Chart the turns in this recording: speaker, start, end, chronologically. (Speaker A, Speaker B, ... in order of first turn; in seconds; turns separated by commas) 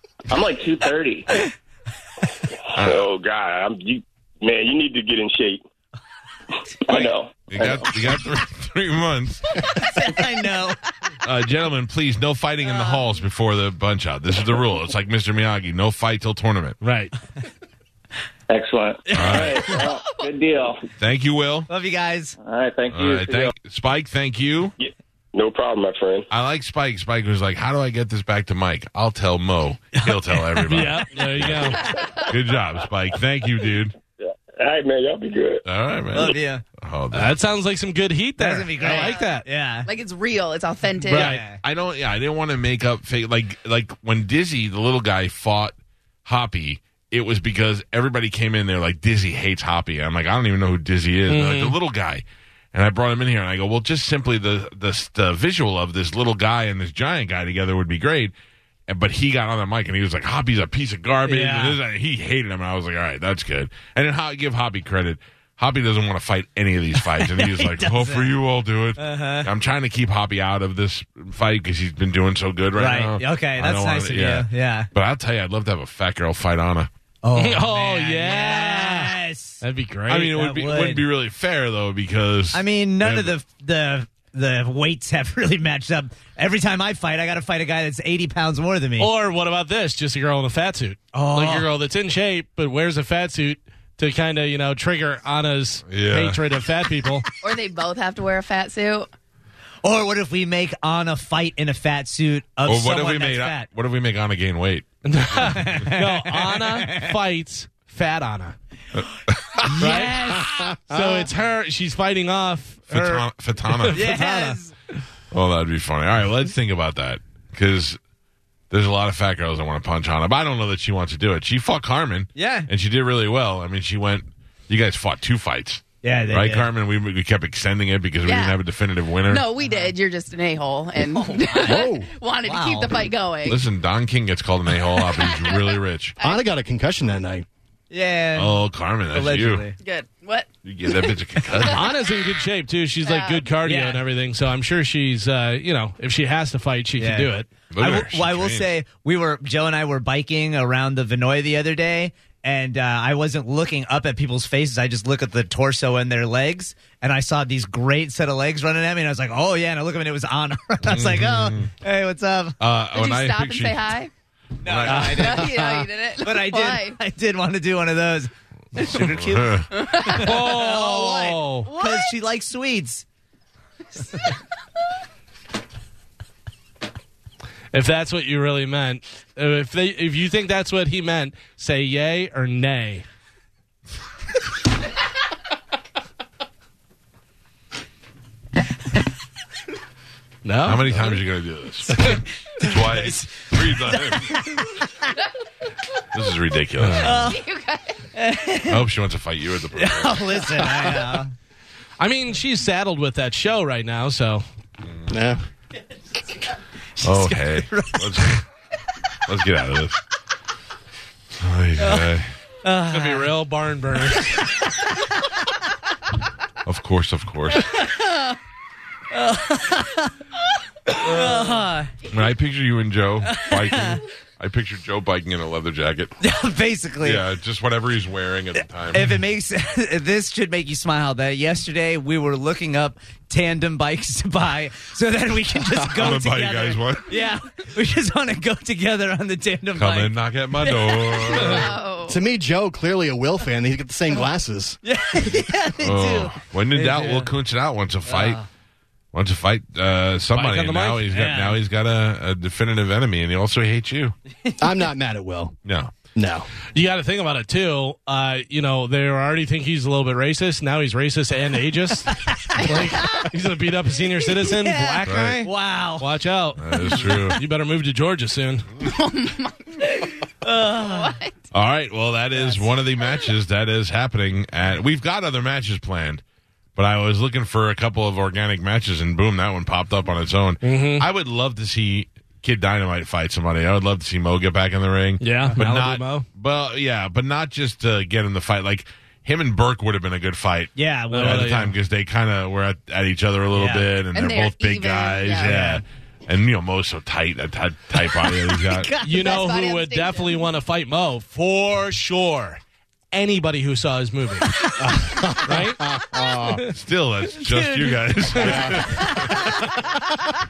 Speaker A: 0.3-1.5, Speaker B: 2.7-5.6, Speaker C: 2.7-3.1, Speaker A: 6.9-7.9, Speaker C: 7.5-9.8, Speaker D: 9.7-10.8, Speaker C: 11.2-16.8, Speaker E: 16.8-17.1, Speaker A: 18.5-20.9, Speaker C: 19.1-19.8, Speaker C: 21.0-21.7, Speaker D: 21.7-22.4, Speaker A: 22.4-23.5, Speaker C: 22.9-24.7, Speaker B: 24.8-26.3, Speaker C: 26.3-33.9, Speaker E: 30.6-31.8, Speaker B: 31.7-32.2, Speaker F: 31.8-32.2, Speaker B: 34.2-35.6, Speaker C: 35.6-37.4, Speaker D: 36.1-36.6, Speaker E: 37.1-39.4, Speaker D: 38.4-39.9, Speaker F: 38.8-39.3, Speaker F: 39.8-41.4, Speaker D: 41.1-41.6, Speaker E: 41.1-41.4, Speaker C: 41.5-45.7, Speaker C: 46.2-58.3, Speaker E: 51.3-51.8, Speaker C: 58.9-76.9, Speaker D: 61.2-61.8, Speaker D: 67.0-68.3, Speaker D: 69.0-69.5, Speaker D: 72.8-74.9, Speaker D: 77.2-79.6, Speaker E: 77.3-80.4, Speaker C: 80.1-83.3, Speaker D: 80.2-81.0, Speaker D: 82.5-89.1, Speaker E: 89.0-97.3, Speaker D: 91.1-91.7, Speaker C: 95.9-96.4, Speaker F: 97.4-99.1, Speaker D: 99.8-103.7, Speaker C: 102.6-104.8, Speaker E: 105.0-108.5, Speaker D: 105.3-107.2, Speaker C: 105.4-105.8, Speaker C: 109.0-110.0, Speaker D: 109.7-110.7, Speaker E: 109.8-114.6, Speaker C: 112.9-114.2, Speaker D: 113.9-114.7, Speaker C: 115.3-118.0, Speaker C: 118.7-129.4, Speaker D: 122.3-122.7, Speaker D: 126.0-126.7, Speaker F: 128.2-128.6, Speaker F: 129.3-133.6, Speaker D: 129.6-129.9, Speaker D: 131.1-131.8, Speaker G: 131.6-132.1, Speaker D: 132.4-133.1, Speaker C: 133.4-136.2, Speaker F: 135.2-135.6, Speaker G: 136.2-137.5, Speaker D: 137.9-138.6, Speaker C: 138.3-139.6, Speaker D: 139.1-139.8, Speaker F: 139.8-142.4, Speaker C: 140.6-141.8, Speaker E: 141.7-147.5, Speaker F: 143.0-143.5, Speaker D: 143.6-144.0, Speaker D: 147.0-162.6, Speaker C: 147.7-148.7, Speaker C: 160.8-161.7, Speaker C: 162.6-163.9, Speaker F: 162.9-164.1, Speaker D: 164.6-173.0, Speaker C: 164.6-165.5, Speaker F: 164.8-167.0, Speaker C: 168.8-169.7, Speaker F: 169.7-170.7, Speaker E: 170.2-171.7, Speaker F: 171.7-172.1, Speaker E: 177.7-183.1, Speaker E: 190.4-191.2, Speaker C: 190.6-194.5, Speaker D: 192.9-195.1, Speaker C: 196.1-197.2, Speaker E: 196.8-197.3, Speaker D: 197.0-197.4, Speaker F: 197.1-198.0, Speaker D: 198.1-198.8, Speaker C: 198.7-200.7, Speaker D: 199.7-201.3, Speaker E: 202.0-204.5, Speaker C: 204.8-205.1, Speaker G: 205.1-205.4, Speaker D: 207.0-208.3, Speaker C: 207.0-208.4, Speaker C: 209.2-210.0, Speaker C: 211.4-212.3, Speaker D: 211.8-212.1, Speaker D: 212.6-213.3, Speaker E: 212.8-214.4, Speaker C: 216.6-217.7, Speaker D: 217.5-218.2, Speaker D: 219.1-220.1, Speaker D: 220.9-221.9, Speaker C: 222.1-226.1, Speaker D: 223.2-224.0, Speaker D: 226.2-227.2, Speaker C: 227.0-229.2, Speaker D: 228.9-241.6, Speaker C: 235.9-237.1, Speaker C: 239.8-241.7, Speaker F: 241.3-242.2, Speaker G: 242.1-244.8, Speaker D: 244.8-247.3, Speaker C: 245.8-248.4, Speaker D: 248.1-248.4, Speaker C: 249.1-254.1, Speaker E: 250.3-251.1, Speaker D: 251.1-251.6, Speaker G: 254.6-255.6, Speaker C: 255.6-255.9, Speaker G: 256.1-256.5, Speaker E: 256.7-268.7, Speaker D: 262.1-263.2, Speaker F: 262.6-263.2, Speaker D: 264.3-266.1, Speaker C: 265.0-265.5, Speaker C: 266.6-267.4, Speaker D: 266.7-267.4, Speaker F: 268.8-269.6, Speaker D: 269.9-271.2, Speaker F: 270.7-271.3, Speaker C: 271.5-276.2, Speaker D: 272.3-272.7, Speaker C: 276.8-298.9, Speaker E: 280.6-281.1, Speaker E: 285.2-286.3, Speaker D: 290.8-291.5, Speaker E: 291.1-291.7, Speaker D: 293.5-293.9, Speaker F: 294.1-295.7, Speaker D: 295.4-295.8, Speaker D: 298.5-299.4, Speaker E: 299.0-306.8, Speaker F: 299.0-300.5, Speaker G: 304.8-306.6, Speaker C: 306.7-309.7, Speaker D: 307.4-309.9, Speaker G: 308.4-308.8